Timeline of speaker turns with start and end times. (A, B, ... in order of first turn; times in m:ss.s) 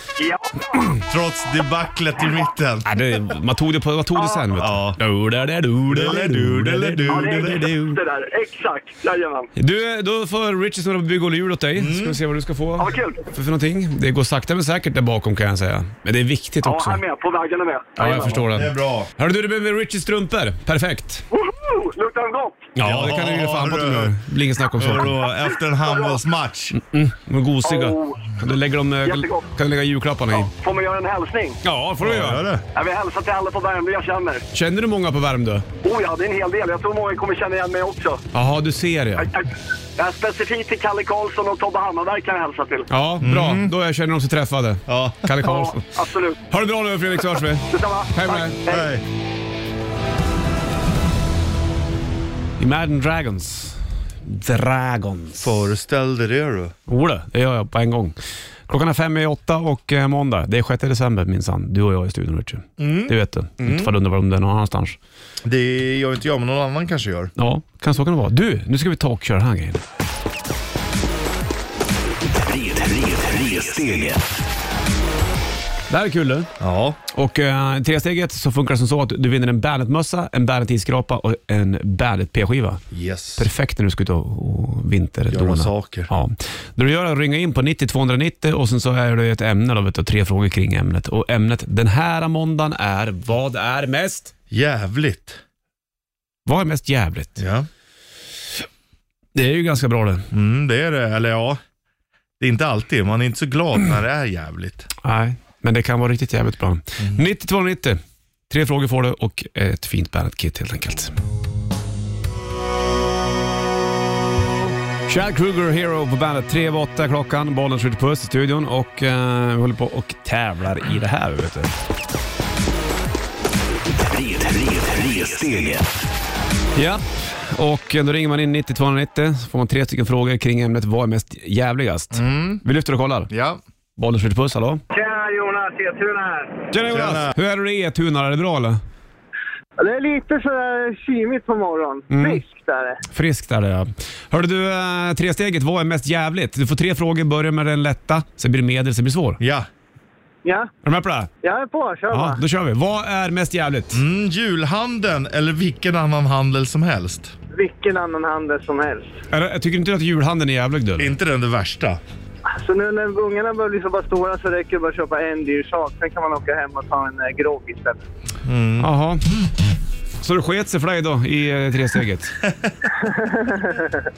0:00.2-0:00.8 A
0:01.1-0:02.9 B
0:02.8-0:08.0 C
0:04.2-0:04.4 A
0:04.6-0:05.0 B
0:05.9-0:07.7 B
0:07.1-0:09.5 A
0:09.6-0:17.0 C
0:11.7-0:12.2 B
0:12.8-0:13.2 A
0:16.6-0:18.3 A
0:18.0-0:21.2 C
0:18.0-0:19.1 B
0:21.3-0:22.7 A
0:22.8-0:25.1 C
0:22.8-0:24.2 B
0:24.8-0:26.8 B
0:25.8-0:26.2 A
0:26.7-0:30.5 C
0:27.6-0:28.3 A
0:29.0-0:29.5 A
0:30.3-0:31.6 A
0:31.6-0:32.4 C
0:32.0-0:32.6 B
0:32.7-0:34.4 A
0:34.5-0:35.6 C
0:35.8-0:38.2 A
0:38.3-0:39.3 C
0:39.2-0:42.9 A
0:42.9-0:45.8 C
0:43.2-0:43.7 B
0:44.9-0:45.3 B
0:45.4-0:46.4 A
0:46.5-0:48.6 C
0:47.7-0:48.9 A
0:48.7-0:49.0 B
0:52.6-0:55.6 C
0:55.4-0:56.7 B
0:56.9-0:58.2 C
0:58.7-1:05.0 C
1:02.8-1:03.9 B
1:05.4-1:07.3 B
1:07.4-1:09.8 C
1:12.4-1:14.2 D
1:15.9-1:16.5 C
1:16.6-1:17.0 B
1:17.1-1:22.8 C
1:22.9-1:23.4 B
1:23.4-1:34.3 C
1:25.3-1:26.1 B
1:34.5-1:35.4 B
1:36.4-1:37.4 C
1:37.4-1:37.7 B
1:39.3-1:40.3 C
1:40.3-1:41.6 B
1:42.4-1:44.9 B
1:45.0-1:51.1 C
1:55.0-2:01.7 C
2:04.1-2:05.8 D
2:06.7-2:13.3 C
2:12.1-2:12.6 B
2:13.3-2:13.6 B
2:14.0-2:14.8 C
2:14.9-2:16.6 E
2:16.7-2:18.8 C
2:16.9-2:17.3 B
2:19.8-2:23.0 E
2:22.1-2:22.4 C
2:23.1-2:29.4 C
2:29.4-2:29.7 B
2:30.4-2:30.7 E
2:30.8-2:31.3 C
2:31.4-2:32.4 E
2:32.1-2:34.0 C
2:33.9-2:37.3 B
2:37.5-2:39.2 E
2:39.3-2:41.1 C
2:41.0-2:42.0 B
2:42.6-2:48.0 E
2:48.4-2:48.9 B
2:48.8-2:49.3 C
2:50.2-2:52.4 C
2:52.4-2:52.7 B
2:53.0-2:54.0 E